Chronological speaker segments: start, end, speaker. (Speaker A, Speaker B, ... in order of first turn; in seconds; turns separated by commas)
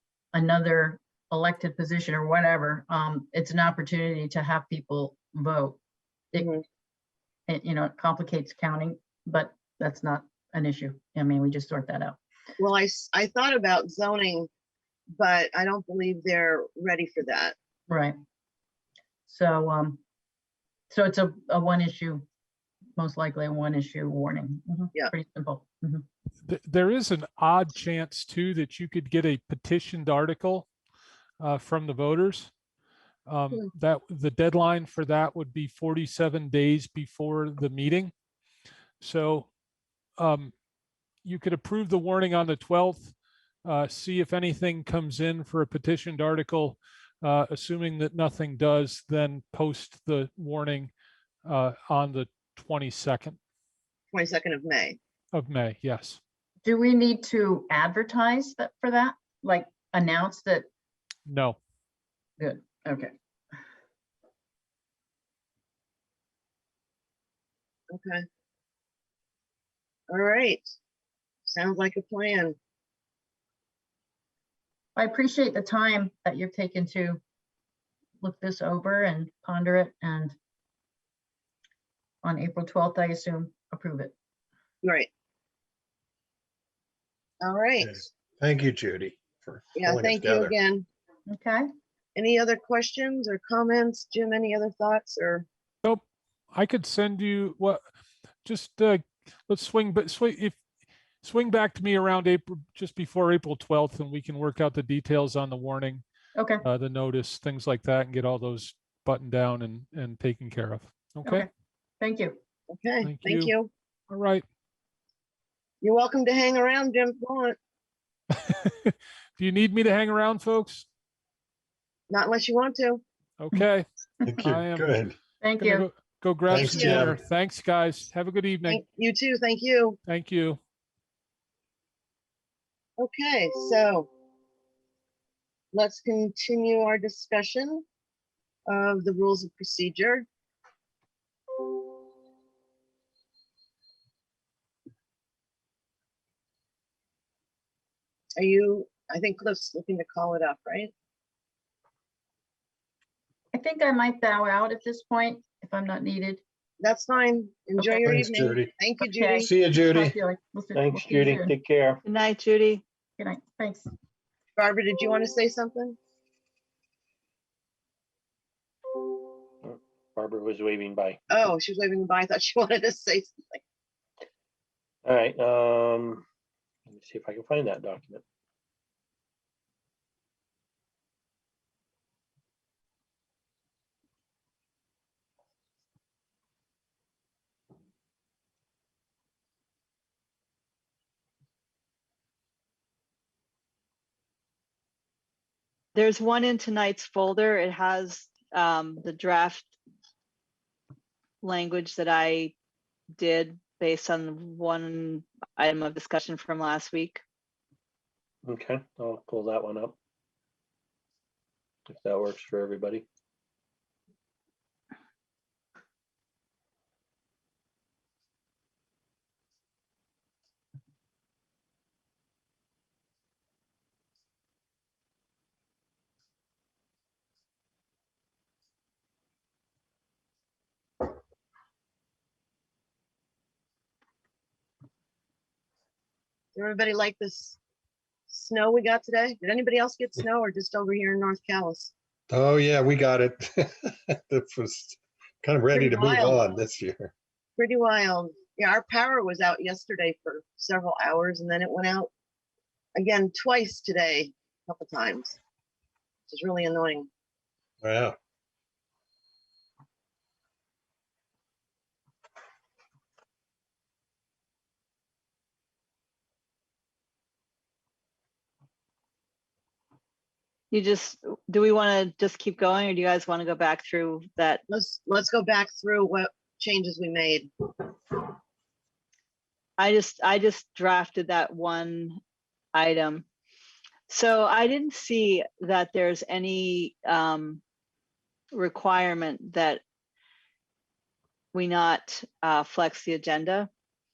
Speaker A: 0.3-5.8, Speaker A: 7.5-12.2, Speaker B: 12.6-14.5, Speaker B: 15.2-17.5, Speaker A: 17.9-18.1, Speaker A: 19.3-20.0, Speaker A: 20.9-22.2, Speaker A: 23.0-26.0, Speaker C: 26.4-30.7, Speaker C: 31.4-32.5, Speaker C: 33.2-38.1, Speaker C: 39.0-39.5, Speaker C: 40.2-40.5, Speaker C: 41.2-50.9, Speaker C: 51.4-53.4, Speaker B: 54.1-55.0, Speaker C: 55.3-56.2, Speaker A: 56.6-60.7, Speaker C: 61.3-61.6, Speaker A: 62.4-63.1, Speaker B: 67.9-68.2, Speaker B: 70.1-70.7, Speaker B: 71.5-72.5, Speaker A: 75.0-77.2, Speaker A: 78.2-80.3, Speaker A: 82.2-84.1, Speaker B: 84.8-85.1, Speaker B: 87.4-88.0, Speaker D: 87.8-90.5, Speaker B: 89.8-90.8, Speaker A: 91.3-91.7, Speaker B: 92.1-95.5, Speaker C: 95.8-97.8, Speaker C: 98.4-100.6, Speaker C: 101.2-106.0, Speaker A: 106.3-106.6, Speaker C: 106.6-111.5, Speaker A: 112.0-112.4, Speaker B: 112.7-113.7, Speaker C: 113.0-113.5, Speaker C: 114.1-114.4, Speaker B: 115.8-117.6, Speaker C: 118.4-120.9, Speaker B: 122.1-123.0, Speaker C: 123.4-123.8, Speaker D: 124.2-125.2, Speaker C: 124.4-124.9, Speaker A: 125.4-125.9, Speaker C: 125.6-128.8, Speaker D: 126.5-127.2, Speaker B: 126.5-127.1, Speaker B: 128.7-130.0, Speaker C: 130.1-130.6, Speaker B: 133.0-134.1, Speaker B: 135.7-137.8, Speaker B: 138.7-140.2, Speaker B: 148.3-150.9, Speaker A: 153.5-156.4, Speaker B: 156.8-159.5, Speaker A: 157.8-158.2, Speaker D: 158.0-158.7, Speaker A: 159.0-161.5, Speaker D: 159.4-160.2, Speaker E: 160.7-162.0, Speaker F: 162.0-162.8, Speaker A: 163.2-163.9, Speaker B: 164.6-166.0, Speaker E: 169.6-171.2, Speaker B: 171.3-173.6, Speaker E: 175.0-176.2, Speaker E: 176.9-178.2, Speaker F: 195.9-199.7, Speaker F: 201.4-202.5, Speaker F: 203.2-207.2, Speaker E: 208.4-210.0, Speaker E: 211.9-213.1, Speaker B: 236.5-237.6, Speaker B: 238.3-241.9, Speaker D: 242.3-247.1, Speaker B: 245.7-246.4, Speaker B: 247.6-252.1, Speaker B: 252.9-255.3, Speaker B: 256.3-257.1, Speaker D: 257.8-258.1, Speaker F: 270.7-274.6, Speaker B: 274.7-277.9, Speaker F: 279.8-282.2, Speaker F: 282.7-283.2, Speaker F: 284.1-287.6, Speaker F: 288.5-289.8, Speaker F: 291.5-293.7